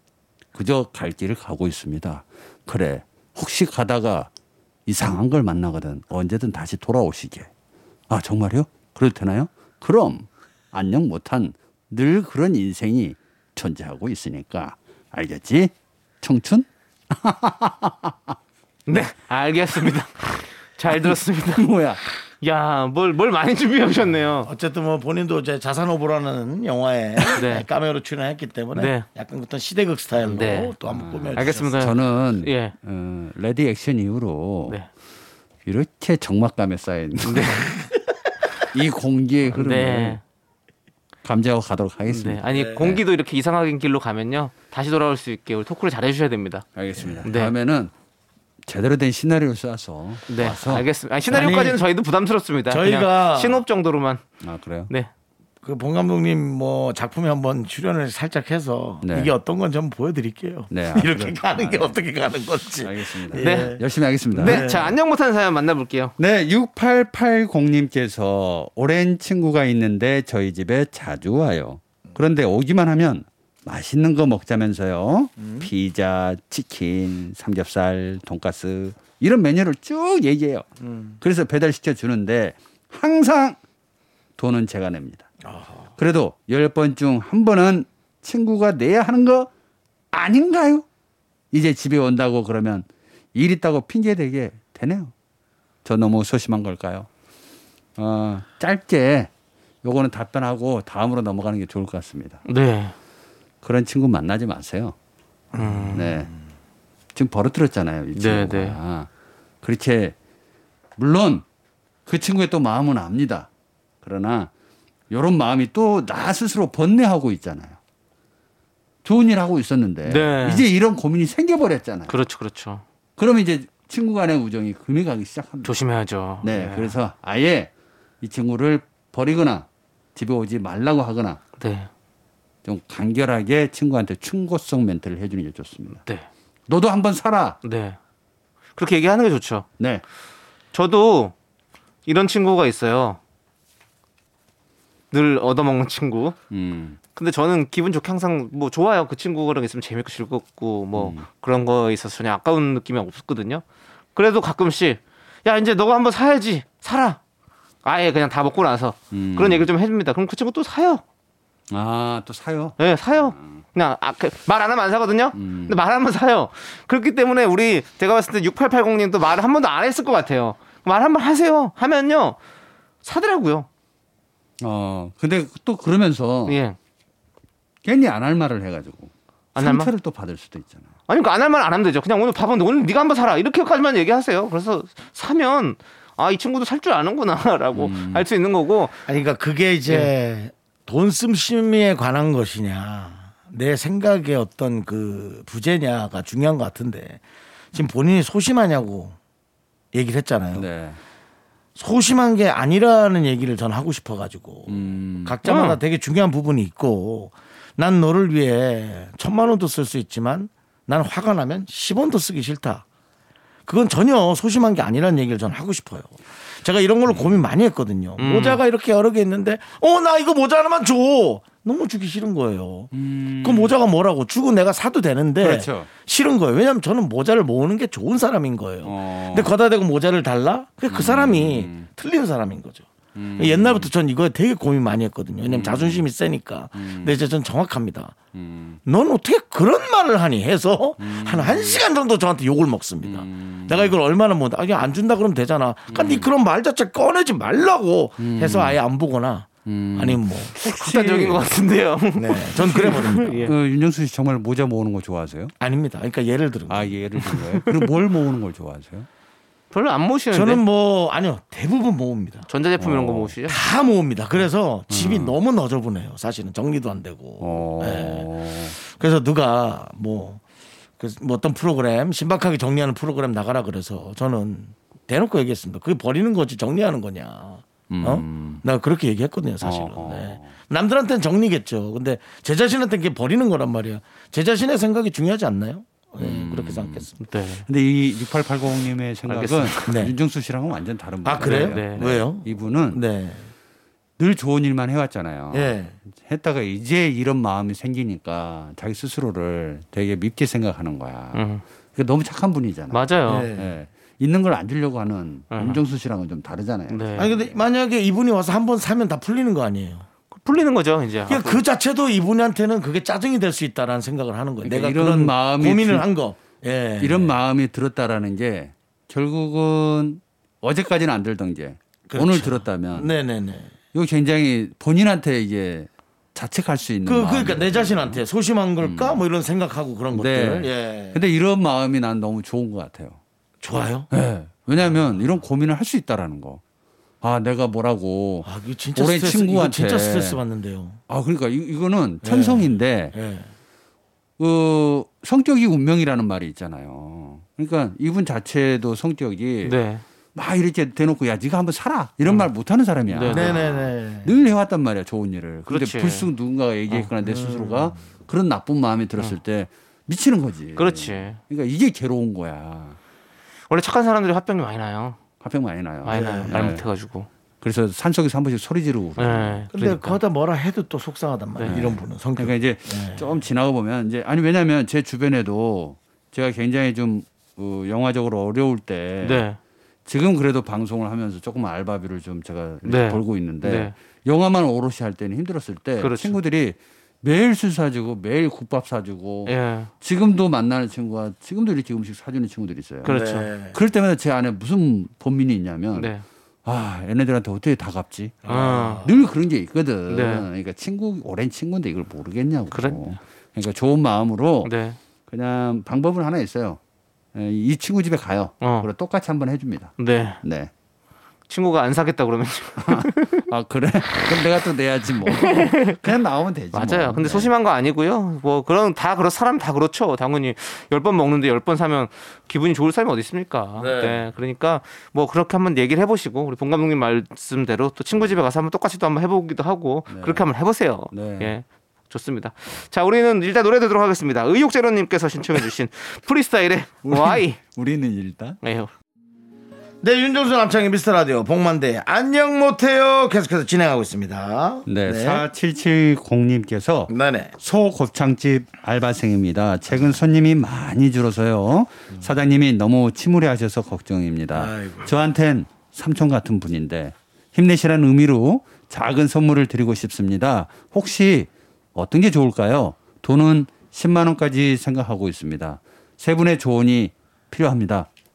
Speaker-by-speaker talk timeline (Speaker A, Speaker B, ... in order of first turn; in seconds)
Speaker A: 0.5-4.3, 4.9-7.5, 8.1-18.4, 20.9-22.1, 30.9-34.8, 35.6-37.7, 38.7-40.2, 41.2-43.0, 46.8-47.9, 48.6-51.6, 54.4-54.9, 59.0-59.3, 60.7-62.0, 62.8-64.7, 66.2-80.6, 81.2-83.6, 84.4-85.3, 86.0-89.5, 90.1-90.8, 91.5-95.1, 95.8-97.1, 98.0-99.3, 99.8-102.4, 103.6-104.9, 105.9-106.3, 107.1-109.1, 109.6-110.1, 111.0-111.4, 112.1-113.5, 114.0-114.5, 115.1-117.8, 119.0-122.1, 123.2-125.8, 126.4-131.4, 132.6-136.0, 136.7-137.6, 146.5-147.0, 150.9-151.3, 159.1-159.7, 161.7-163.6, 165.3-165.8, 174.6-176.6, 177.8-180.9, 187.8-188.3, 200.5-201.0, 204.7-205.4, 217.1-217.4, 222.9-223.7, 225.4-225.9, 228.8-229.5, 230.9-231.9, 233.1-233.9, 235.4-236.1, 236.8-237.2, 238.3-238.8, 241.0-241.8, 243.0-243.9, 245.9-246.3, 248.2-248.8, 249.7-251.4, 253.4-255.5, 256.7-259.1, 262.8-263.3, 264.9-265.4, 267.4-268.8, 277.9-278.6, 279.6-280.6, 286.2-287.1, 287.7-293.0, 294.2-301.4, 302.0-307.6, 314.6-316.1, 317.0-323.1, 323.9-328.2, 328.8-329.2, 330.1-333.2, 334.1-336.6, 337.2-340.4, 341.1-343.1, 344.4-349.8, 350.4-363.0, 365.4-366.8, 367.6-370.2, 371.6-379.5, 380.1-396.1, 396.6-404.7, 405.3-406.8, 407.3-410.7, 412.8-417.5, 430.1-430.5, 431.1-431.5, 437.0-438.6, 444.9-468.1
Speaker B: 18.9-21.6, 22.4-24.5, 27.3-27.6, 28.8-29.1, 30.3-30.7, 31.4-32.8, 37.2-37.7, 39.5-40.2, 42.1-46.6, 47.2-47.5, 50.3-54.2, 63.4-63.8, 64.3-66.1, 102.5-102.9, 105.6-106.1, 108.1-108.8, 120.1-120.6, 122.1-122.8, 125.6-126.9, 131.6-131.9, 137.6-138.0, 138.8-139.6, 140.7-141.3, 142.1-143.2, 145.1-146.4, 147.2-153.6, 154.1-157.2, 157.8-161.0, 162.8-172.4, 173.0-173.7, 176.4-176.8, 179.6-179.9, 181.1-189.0, 205.4-205.8, 218.2-218.6, 250.6-253.6, 257.3-257.7, 259.7-260.6, 262.5-263.6, 287.2-287.6, 289.3-289.9, 291.4-292.1, 301.3-301.6, 302.9-303.5, 305.5-305.8, 306.9-307.3, 310.3-311.6, 349.6-350.0, 353.1-353.6, 355.7-356.3, 360.8-361.4, 363.7-365.2, 366.0-367.3, 369.2-369.9, 379.2-379.6, 382.9-383.9, 386.0-386.4, 389.5-389.9, 393.0-393.5, 395.9-396.2, 398.5-399.0, 400.1-400.5, 402.7-403.0, 404.6-405.0, 408.6-408.9, 410.0-410.4, 411.5-413.5, 415.4-416.0, 416.7-437.6, 438.6-438.9
Speaker C: 24.4-31.8, 42.5-42.8, 51.3-51.8, 52.7-53.6, 55.6-63.8, 64.4-64.9, 75.4-75.7, 80.8-81.2, 85.4-85.9, 105.5-106.0, 189.1-197.2, 197.7-199.2, 199.9-200.7, 201.8-212.8, 213.7-222.9, 223.4-238.2, 238.8-250.6, 252.2-253.5, 255.6-257.0, 260.3-262.5, 263.5-270.4, 271.0-287.1, 289.9-290.1, 291.2-293.5, 295.5-296.0, 303.3-303.7, 307.2-310.1, 311.3-317.3, 322.1-323.7, 327.0-331.2, 333.6-334.1, 338.4-341.0, 342.2-343.5, 353.3-354.3, 357.2-358.0, 366.1-366.7, 369.7-373.4, 393.0-393.8, 398.4-399.1, 440.0-445.4, 447.1-447.5, 454.5-455.1